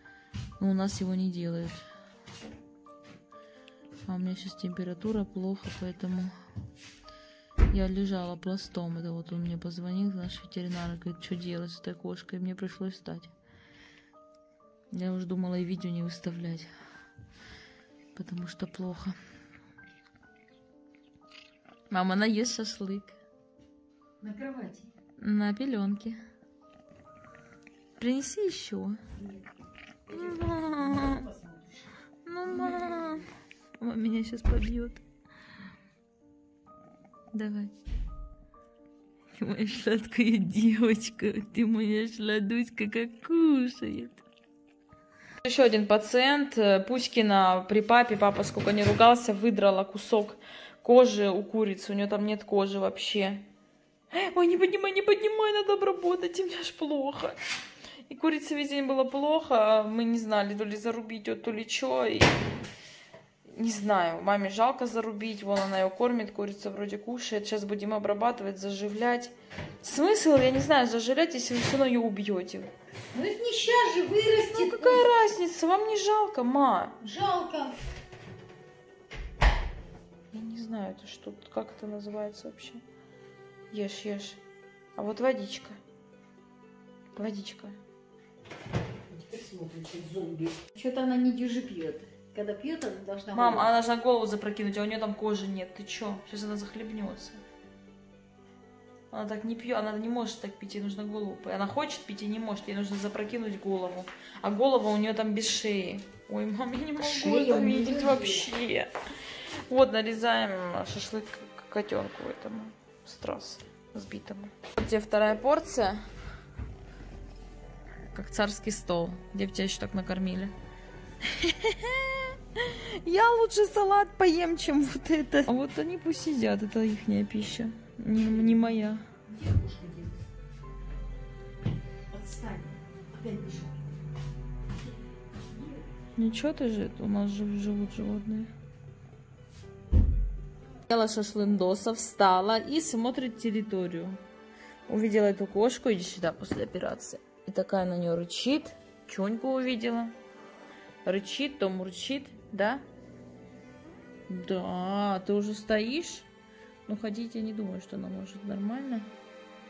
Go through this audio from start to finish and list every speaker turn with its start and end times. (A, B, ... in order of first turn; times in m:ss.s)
0:00.6-0:01.8 A
0:04.0-0:06.3 A
0:07.7-0:13.3 A
0:14.9-0:16.7 A
0:18.1-0:19.2 A
0:21.9-0:23.2 A
0:24.2-0:24.9 B
0:25.2-0:26.2 A
0:28.0-0:29.0 A
0:29.2-0:29.5 B
0:30.1-0:31.9 B
0:30.1-0:31.3 A
0:32.2-0:35.0 A
0:32.4-0:33.2 B
0:37.3-0:37.7 A
0:39.3-0:44.2 A
0:45.4-0:53.4 A
0:54.1-0:57.4 A
0:58.1-1:02.4 A
1:03.5-1:12.7 A
1:13.1-1:15.1 B
1:14.5-1:17.0 A
1:17.0-1:17.8 B
1:20.3-1:22.8 A
1:23.7-1:24.4 A
1:25.0-1:25.8 A
1:27.1-1:27.8 A
1:29.1-1:33.7 B
1:33.3-1:37.4 A
1:39.1-1:48.9 A
1:47.0-1:48.5 B
1:49.7-1:56.0 A
1:58.1-2:00.5 A
2:01.2-2:09.0 A
2:08.1-2:08.7 B
2:09.2-2:10.2 B
2:12.1-2:13.9 B
2:15.1-2:16.0 B
2:16.2-2:18.5 A
2:20.9-2:24.2 A
2:24.9-2:30.1 A
2:31.0-2:32.8 A
2:34.3-2:36.3 A
2:36.8-2:39.1 A